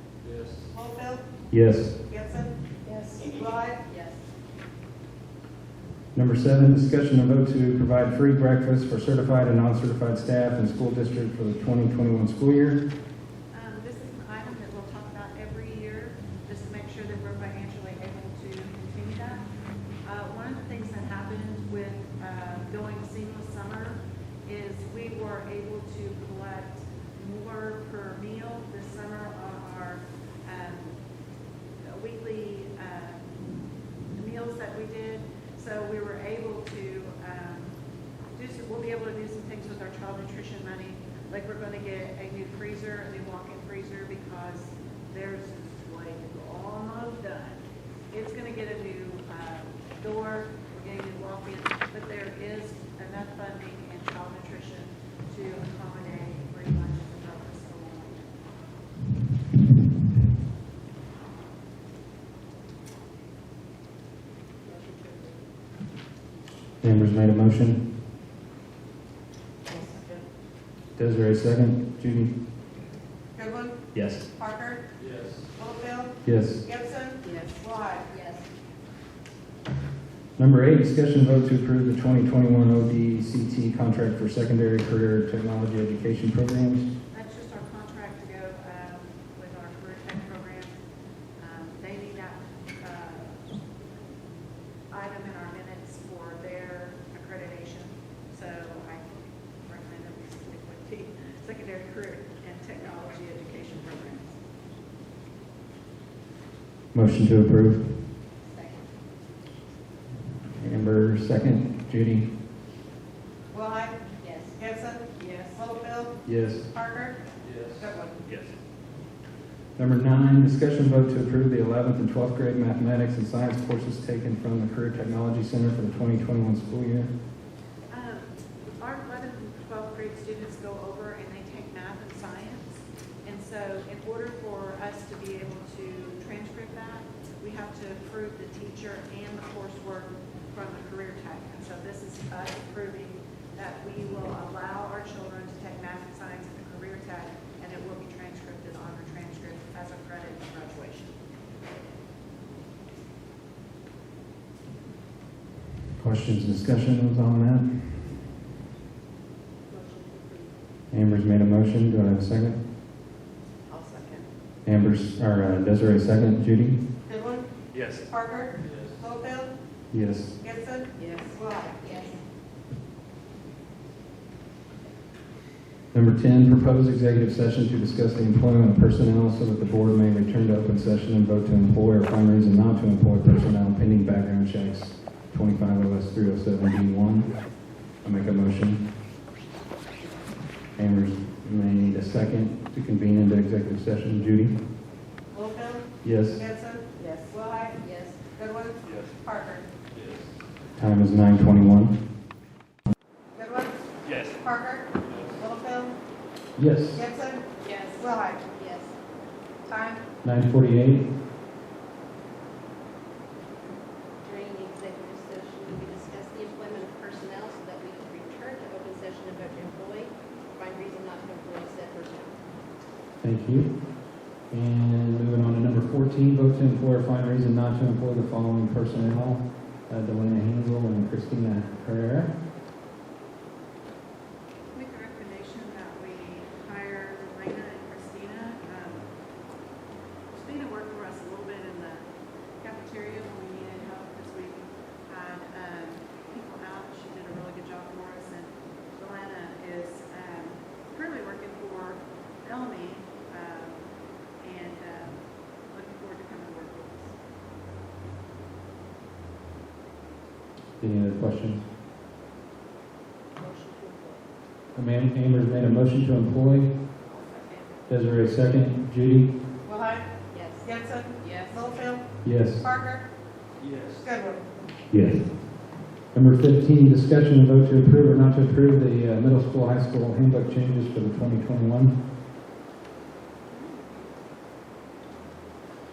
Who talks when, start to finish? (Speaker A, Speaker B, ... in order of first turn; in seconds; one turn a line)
Speaker A: 0.2-0.7
Speaker B: 0.7-1.2
Speaker C: 1.5-1.9
Speaker B: 2.1-2.5
Speaker D: 2.8-3.3
Speaker B: 3.2-3.8
Speaker D: 3.9-4.2
Speaker C: 6.1-12.8
Speaker E: 13.5-19.4
Speaker E: 20.0-31.0
Speaker E: 31.8-33.3
Speaker E: 34.1-37.8
Speaker E: 38.3-58.3
Speaker D: 64.7-65.3
Speaker C: 66.8-67.9
Speaker D: 69.7-70.2
Speaker C: 71.0-72.3
Speaker B: 73.3-73.8
Speaker C: 73.9-74.2
Speaker B: 74.3-74.8
Speaker A: 75.0-75.5
Speaker B: 75.5-78.1
Speaker C: 76.2-76.6
Speaker D: 77.2-78.4
Speaker C: 80.4-86.9
Speaker E: 87.1-90.8
Speaker E: 91.4-93.4
Speaker E: 94.9-104.4
Speaker C: 106.9-108.0
Speaker D: 108.5-108.9
Speaker C: 110.6-112.3
Speaker B: 113.5-114.0
Speaker D: 114.2-114.6
Speaker B: 114.5-117.2
Speaker D: 115.2-115.6
Speaker C: 116.2-116.7
Speaker A: 117.4-118.5
Speaker B: 117.8-118.2
Speaker C: 119.8-127.1
Speaker E: 127.9-151.1
Speaker C: 156.0-158.1
Speaker D: 159.7-160.5
Speaker C: 160.9-162.6
Speaker D: 163.7-164.3
Speaker C: 164.6-166.8
Speaker B: 167.1-167.5
Speaker A: 167.7-168.0
Speaker B: 168.1-169.5
Speaker A: 168.6-169.0
Speaker C: 169.9-170.3
Speaker B: 170.4-171.8
Speaker D: 170.9-172.2
Speaker C: 175.9-188.8
Speaker C: 190.8-194.5
Speaker B: 195.3-197.8
Speaker C: 196.0-196.5
Speaker D: 197.0-198.2
Speaker B: 198.3-199.7
Speaker A: 198.8-199.1
Speaker A: 199.9-200.3
Speaker C: 200.8-201.9
Speaker B: 203.3-203.8
Speaker A: 204.0-204.4
Speaker B: 204.4-205.9
Speaker A: 205.0-205.4
Speaker C: 206.6-207.0
Speaker B: 206.9-207.4
Speaker D: 207.6-208.9
Speaker B: 208.0-208.4
Speaker B: 209.7-210.0
Speaker C: 210.2-211.1
Speaker D: 214.2-222.3
Speaker C: 223.2-223.8
Speaker C: 224.5-232.3
Speaker E: 234.7-239.1
Speaker E: 240.3-242.1
Speaker E: 242.6-253.9
Speaker E: 254.4-257.1
Speaker C: 260.8-261.6
Speaker D: 263.4-264.2
Speaker C: 264.7-266.7
Speaker D: 267.1-267.7
Speaker C: 267.9-269.3
Speaker B: 269.6-270.1
Speaker D: 270.3-271.6
Speaker B: 270.6-273.0
Speaker C: 272.2-272.7
Speaker A: 273.6-274.1
Speaker B: 274.0-274.4
Speaker C: 274.9-275.4
Speaker C: 276.1-281.9
Speaker E: 283.6-283.9